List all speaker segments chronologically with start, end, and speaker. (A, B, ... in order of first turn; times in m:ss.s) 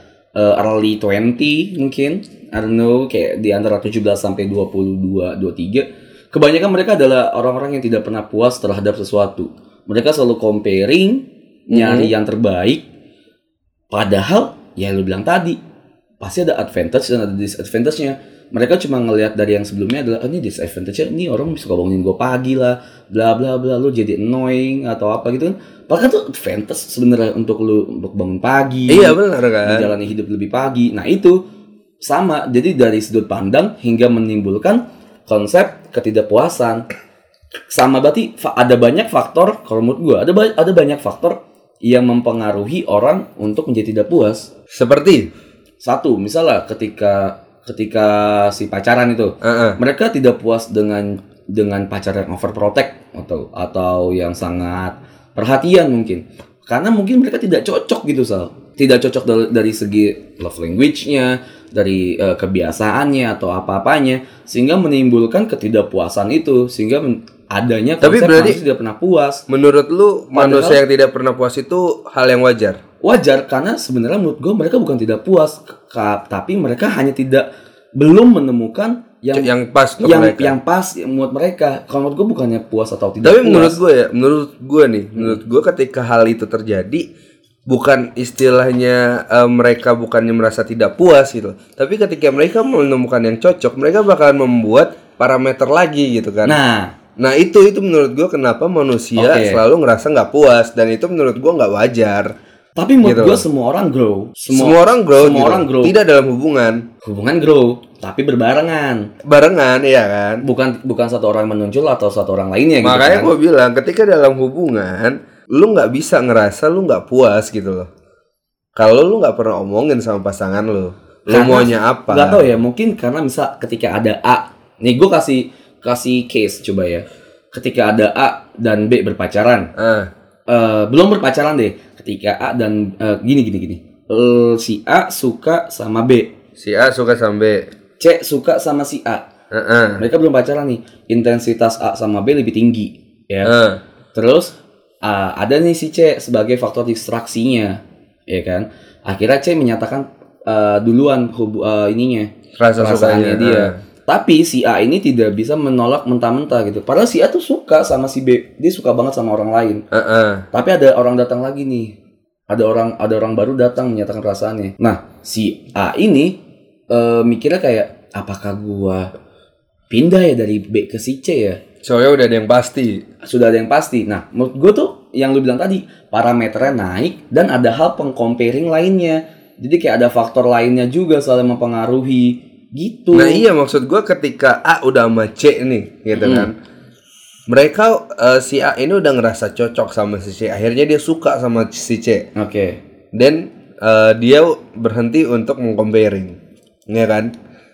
0:00.4-0:12.8 A
0:11.7-0:12.1 B
0:13.9-0:15.6 A
0:16.2-0:31.4 A
0:28.9-0:29.9 B
0:32.0-0:36.8 A
0:37.7-0:44.5 A
0:44.7-0:45.3 B
0:45.8-1:09.4 A
0:49.4-0:49.8 B
1:08.0-1:08.6 B
1:09.5-1:12.8 B
1:10.3-1:10.8 A
1:13.0-1:19.5 A
1:19.3-1:20.6 B
1:20.0-1:23.8 A
1:23.2-1:27.1 B
1:27.7-1:36.6 B
1:36.4-1:37.0 A
1:37.2-1:42.3 B
1:39.2-1:39.6 A
1:42.8-1:46.0 A
1:43.0-1:43.4 B
1:44.5-1:46.9 B
1:47.0-1:49.1 A
1:49.2-1:50.4 B
1:50.4-1:53.3 A
1:52.8-1:57.9 B
1:58.8-2:02.4 B
2:01.3-2:09.7 A
2:09.8-2:10.1 B
2:10.5-2:16.3 A
2:16.6-2:17.7 B
2:18.0-2:19.3 A
2:19.5-2:20.0 B
2:20.0-2:23.6 A
2:23.4-2:23.8 B
2:24.1-2:39.8 A
2:32.6-2:33.8 B
2:39.9-2:40.4 B
2:40.5-2:42.0 A
2:42.5-2:46.4 A
2:46.9-2:49.1 A
2:49.9-2:51.6 A
2:51.8-2:53.0 B
2:53.2-3:03.4 A
3:03.1-3:06.5 B
3:06.2-3:06.5 A
3:07.5-3:12.3 B
3:12.4-3:12.8 A
3:13.1-3:16.4 B
3:16.9-3:17.3 B